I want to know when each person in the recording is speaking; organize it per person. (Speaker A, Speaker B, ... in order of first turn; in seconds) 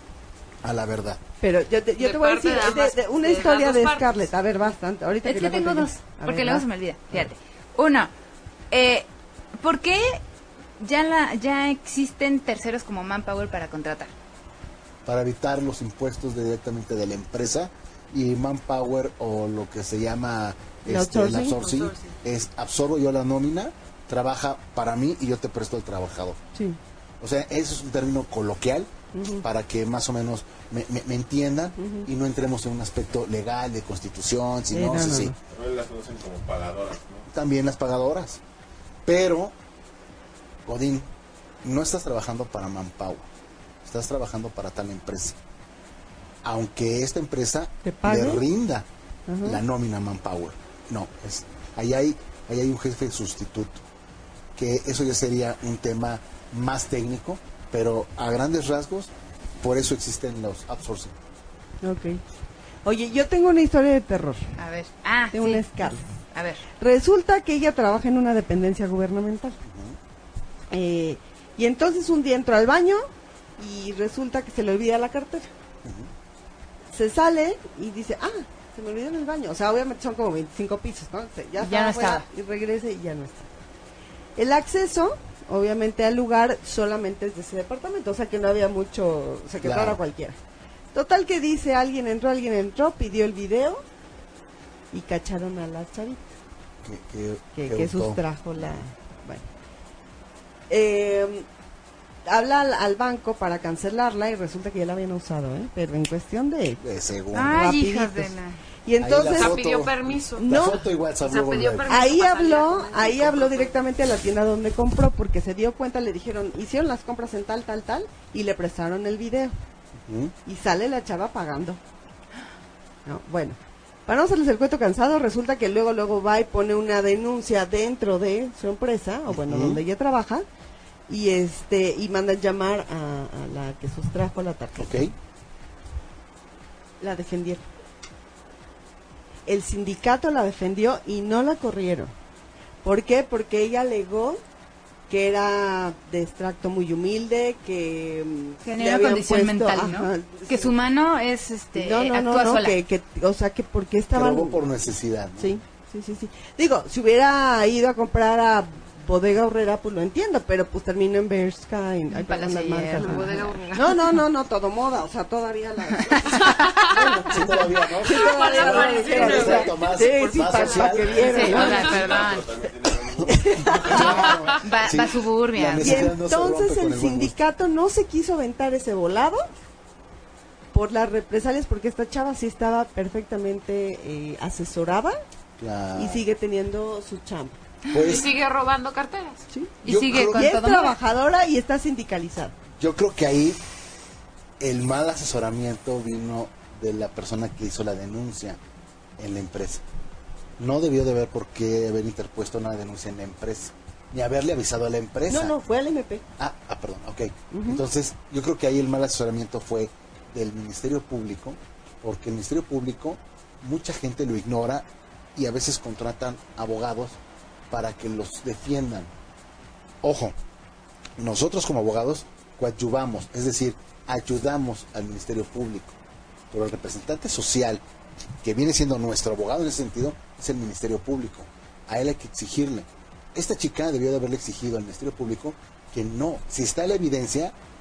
Speaker A: 0.6-1.2, 15.1-26.4, 27.2-35.4, 37.3-38.4, 39.0-39.5, 40.7-41.1, 41.6-43.3, 43.8-45.4, 46.4-48.9, 49.4-53.8, 54.6-61.1, 69.7-70.0, 75.8-76.1, 89.6-90.0, 96.8-98.2, 106.8-107.7, 109.0-111.9, 120.1-120.3, 129.3-129.8, 134.8-135.1, 154.1-155.6, 166.9-171.5, 173.6-177.4, 185.6-186.2, 187.9-188.3, 189.8-190.6, 192.8-193.6, 194.6-198.6, 199.2-199.8, 200.6-205.6, 206.4-217.2, 217.7-219.1, 220.0-220.3, 221.2-226.0, 226.5-227.8, 228.4-237.5
Speaker B: 1.4-6.7, 20.9-21.6, 29.1-29.4, 31.8-32.1, 34.7-35.4, 47.8-48.4, 49.3-49.6, 61.8-62.2, 62.9-64.5, 65.3-66.0, 66.8-69.6, 70.7-73.1, 73.6-75.5, 76.9-83.5, 84.4-90.4, 90.9-93.8, 94.9-96.3, 97.5-99.5, 100.7-101.5, 102.3-106.8, 107.4-108.3, 108.9-109.6, 110.4-110.8, 111.9-119.5, 120.5-121.8, 123.1-130.5, 131.1-134.9, 137.0-137.7, 139.5-142.1, 142.8-144.4, 145.1-150.7, 151.8-154.6, 155.4-172.0, 173.2-174.3, 175.8-179.5, 180.7-185.2, 185.9-187.6, 189.5-192.6, 205.3-206.2, 207.5-207.8
Speaker C: 2.0-4.1, 21.6-22.1, 109.3-113.8, 163.0-164.0, 166.4-166.9, 168.0-172.2, 174.1-174.5, 187.9-189.4
Speaker D: 5.2-8.1, 8.7-9.1, 9.6-10.2, 10.8-14.1, 64.6-65.7, 66.3-66.7, 81.6-82.3, 107.3-108.6, 148.6-152.8, 162.1-163.7, 166.0-166.7, 171.3-172.5, 173.9-176.1, 189.8-190.9
Speaker E: 35.5-37.3, 171.3-174.5